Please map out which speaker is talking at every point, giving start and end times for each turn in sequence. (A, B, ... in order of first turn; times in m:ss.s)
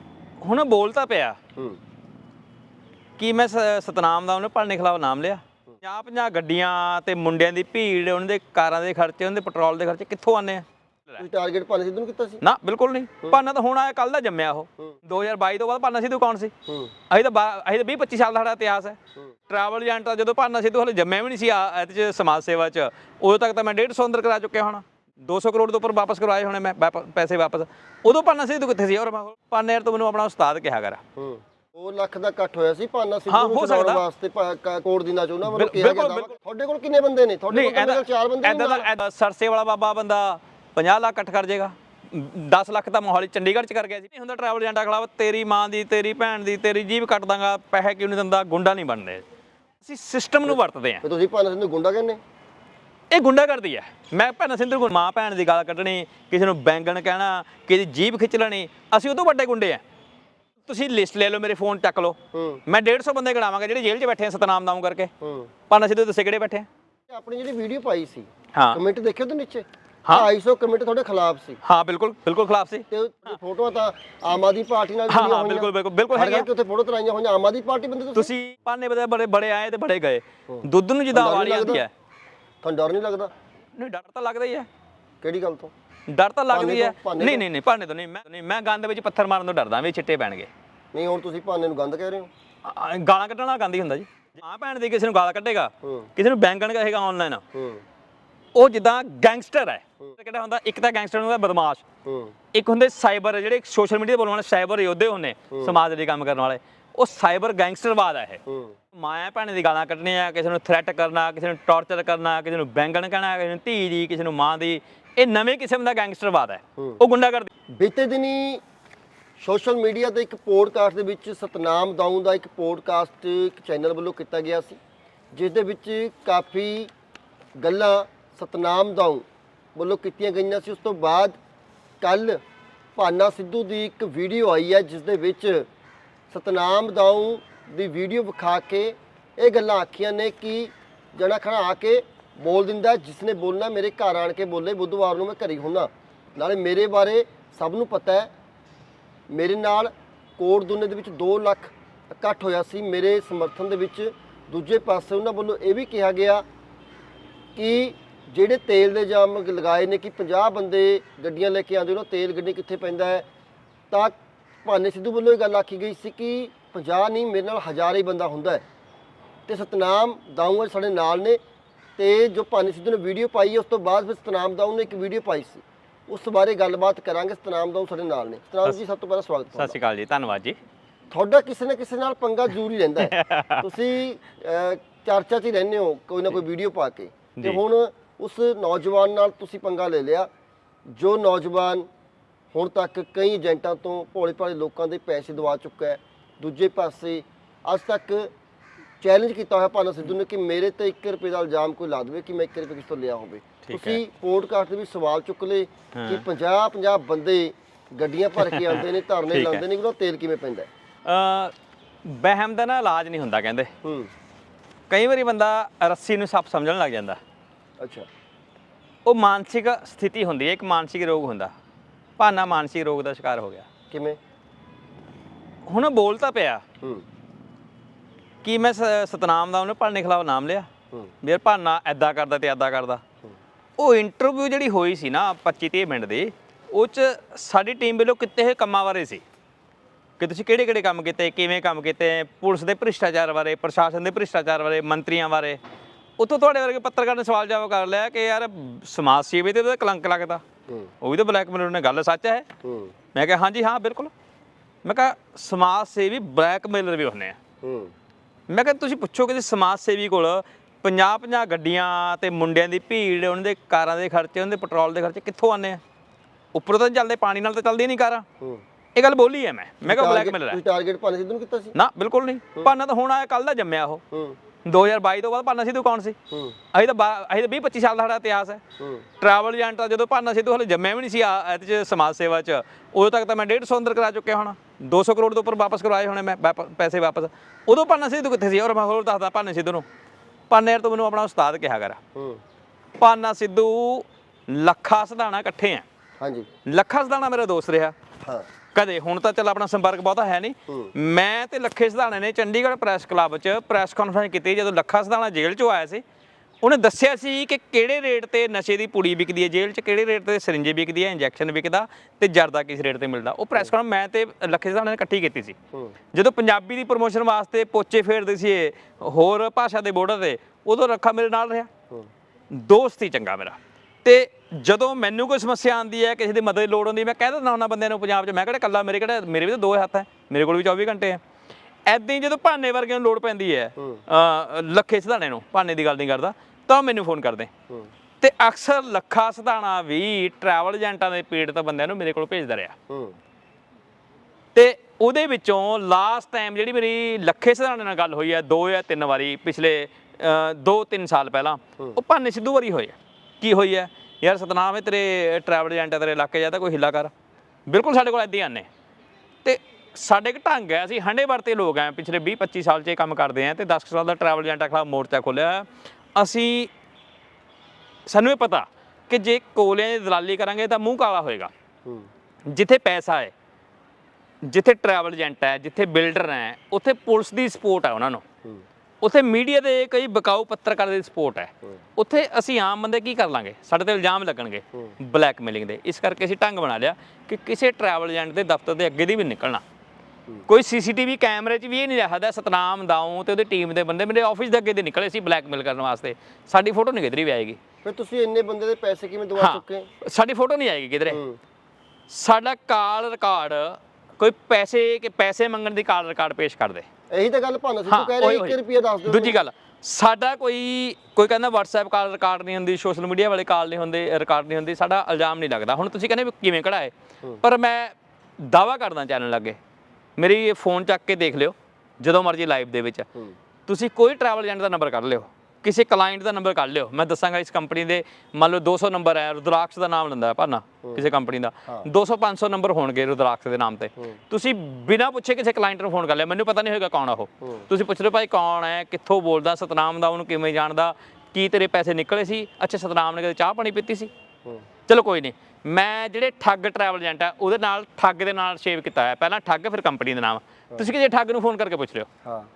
0:00.4-0:01.4 A
0:03.2-0:11.2 A
0:11.2-0:12.4 B
0:12.4-0:16.5 A
0:16.7-0:16.9 B
0:17.1-0:19.0 A
0:19.5-0:31.0 A
0:31.2-0:38.9 B
0:33.3-0:34.0 A
0:35.5-0:36.3 A
0:37.5-0:49.2 A
0:49.8-0:51.0 A
0:51.0-0:52.2 B
0:53.1-0:59.8 A
1:00.7-1:05.1 A
1:02.3-1:02.6 B
1:05.2-1:05.5 B
1:05.7-1:06.7 A
1:07.1-1:11.6 B
1:08.5-1:08.8 A
1:11.6-1:12.8 A
1:12.9-1:18.3 B
1:15.1-1:16.5 A
1:18.2-1:21.9 A
1:20.5-1:21.8 B
1:22.6-1:23.3 B
1:23.8-1:24.7 A
1:25.2-1:25.7 B
1:26.1-1:30.5 A
1:26.5-1:27.4 B
1:30.9-1:32.3 B
1:32.6-1:37.4 A
1:35.8-1:36.1 B
1:37.5-1:37.8 B
1:38.6-1:41.8 A
1:42.0-1:42.4 B
1:42.5-1:48.4 A
1:45.5-1:45.8 B
1:48.5-1:48.8 B
1:48.9-1:57.5 A
1:57.8-1:58.6 B
1:59.4-2:04.8 B
2:05.3-2:06.9 B
2:07.6-2:11.4 B
2:12.0-2:12.4 B
2:13.0-2:15.7 B
2:16.3-2:28.3 B
2:29.3-2:36.4 B
2:37.6-2:43.3 B
2:43.9-2:48.6 B
2:49.5-2:51.4 B
2:52.0-2:59.8 B
2:59.5-3:00.6 A
3:01.1-3:10.3 B
3:03.0-3:03.7 A
3:07.4-3:07.6 A
3:10.9-3:11.9 B
3:12.5-3:18.3 B
3:19.0-3:30.7 B
3:23.6-3:24.0 A
3:25.9-3:26.2 A
3:28.5-3:29.6 A
3:31.0-3:31.5 A
3:32.0-3:33.7 A
3:33.8-3:34.1 B
3:34.9-3:37.2 A
3:37.8-3:38.1 B
3:39.0-3:41.5 A
3:42.2-3:43.7 A
3:43.9-3:44.2 B
3:45.7-3:46.6 A
3:46.8-3:47.1 B
3:48.4-3:50.7 A
3:51.2-3:53.0 A
3:53.8-3:59.2 A
4:00.2-4:05.6 A
4:06.2-4:10.4 A
4:11.0-4:12.5 A
4:12.6-4:12.9 B
4:13.2-4:14.1 A
4:14.8-4:17.4 A
4:17.6-4:17.9 B
4:18.5-4:25.8 A
4:26.5-4:28.3 A
4:29.0-4:30.6 A
4:29.8-4:31.7 B
4:31.7-4:34.0 A
4:34.1-4:34.4 B
4:34.6-4:36.2 A
4:36.3-4:36.6 B
4:36.7-4:38.6 A
4:38.8-4:39.1 B
4:39.2-4:49.8 A
4:50.5-4:52.0 A
4:52.2-4:52.4 B
4:53.0-4:55.8 A
4:56.2-4:56.5 B
4:56.7-4:58.0 A
4:58.8-5:06.0 A
5:00.7-5:00.9 B
5:06.6-5:15.6 A
5:16.1-5:21.7 A
5:22.5-5:31.2 A
5:31.9-5:37.5 A
5:33.8-5:34.0 B
5:38.2-5:42.8 A
5:42.9-5:43.2 B
5:44.6-5:57.1 A
5:57.7-5:58.7 A
5:59.4-6:06.7 A
6:08.1-6:11.5 A
6:12.5-6:13.3 A
6:14.4-6:18.2 A
6:19.0-6:29.6 A
6:30.5-6:37.6 A
6:37.8-6:39.9 B
6:39.4-6:41.2 A
6:41.1-6:41.4 B
6:42.1-6:46.9 A
6:47.1-6:49.4 B
6:47.9-6:59.6 A
7:00.2-7:03.1 A
7:03.7-7:24.1 A
7:24.9-7:32.1 A